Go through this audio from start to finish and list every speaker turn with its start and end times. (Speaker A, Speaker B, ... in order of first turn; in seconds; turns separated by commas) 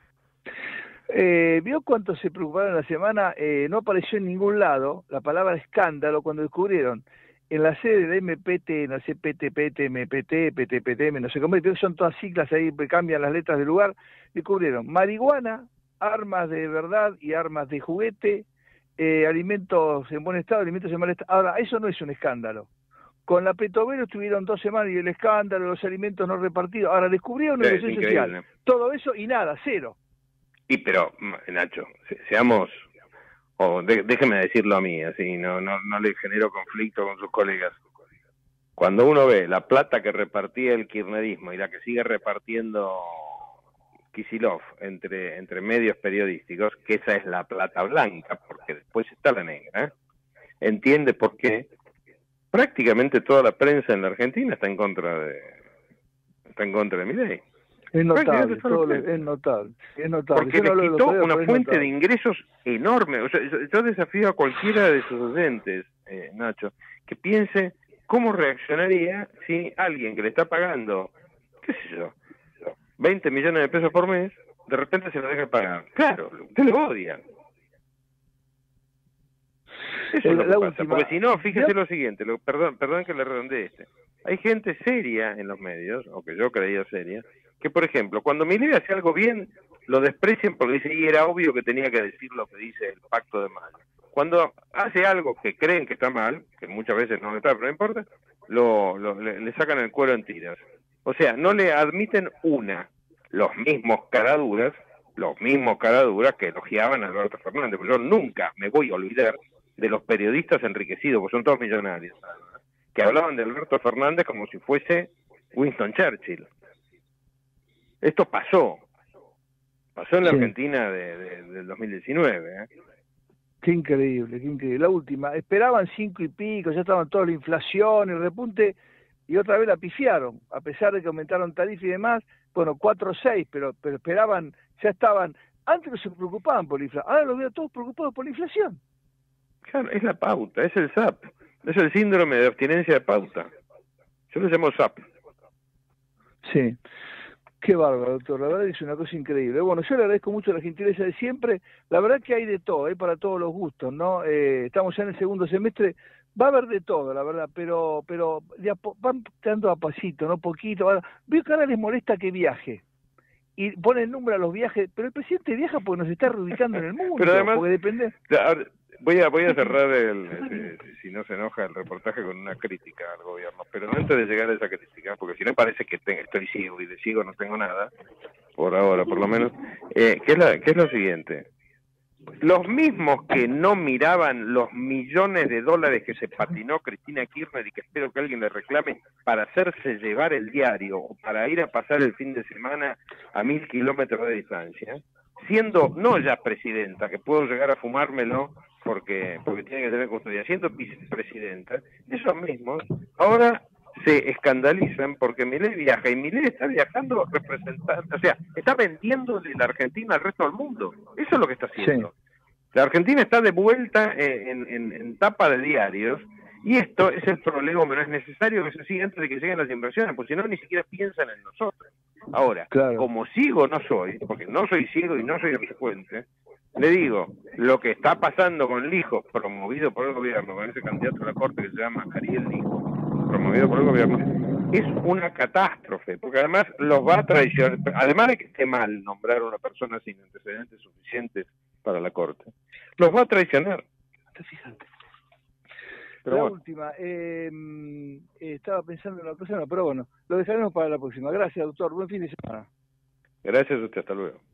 Speaker A: 1.1-18.5, Speaker A: 19.0-22.7, Speaker A: 23.3-30.0, Speaker B: 27.6-28.4, Speaker B: 30.7-32.8, Speaker B: 33.6-37.8, Speaker B: 38.8-43.5, Speaker B: 44.1-49.9, Speaker B: 50.6-51.7, Speaker B: 52.5-55.6, Speaker B: 56.5-57.4, Speaker A: 57.9-61.9, Speaker B: 58.1-59.1, Speaker B: 60.4-72.2, Speaker B: 73.0-77.2, Speaker B: 80.1-116.5, Speaker A: 80.2-81.7, Speaker B: 118.0-118.8, Speaker B: 120.0-122.7, Speaker A: 120.2-120.5, Speaker A: 123.6-138.8, Speaker B: 139.7-143.5, Speaker B: 144.3-145.0, Speaker A: 146.4-146.8, Speaker A: 147.6-162.8, Speaker A: 163.6-168.2, Speaker B: 167.2-167.7, Speaker B: 168.3-177.9, Speaker B: 178.6-181.5, Speaker B: 182.4-212.1, Speaker A: 211.8-212.1, Speaker B: 212.7-226.2, Speaker A: 222.7-223.1, Speaker B: 226.8-243.8, Speaker A: 244.3-244.9, Speaker B: 246.2-246.6, Speaker A: 246.3-252.7, Speaker B: 253.4-254.4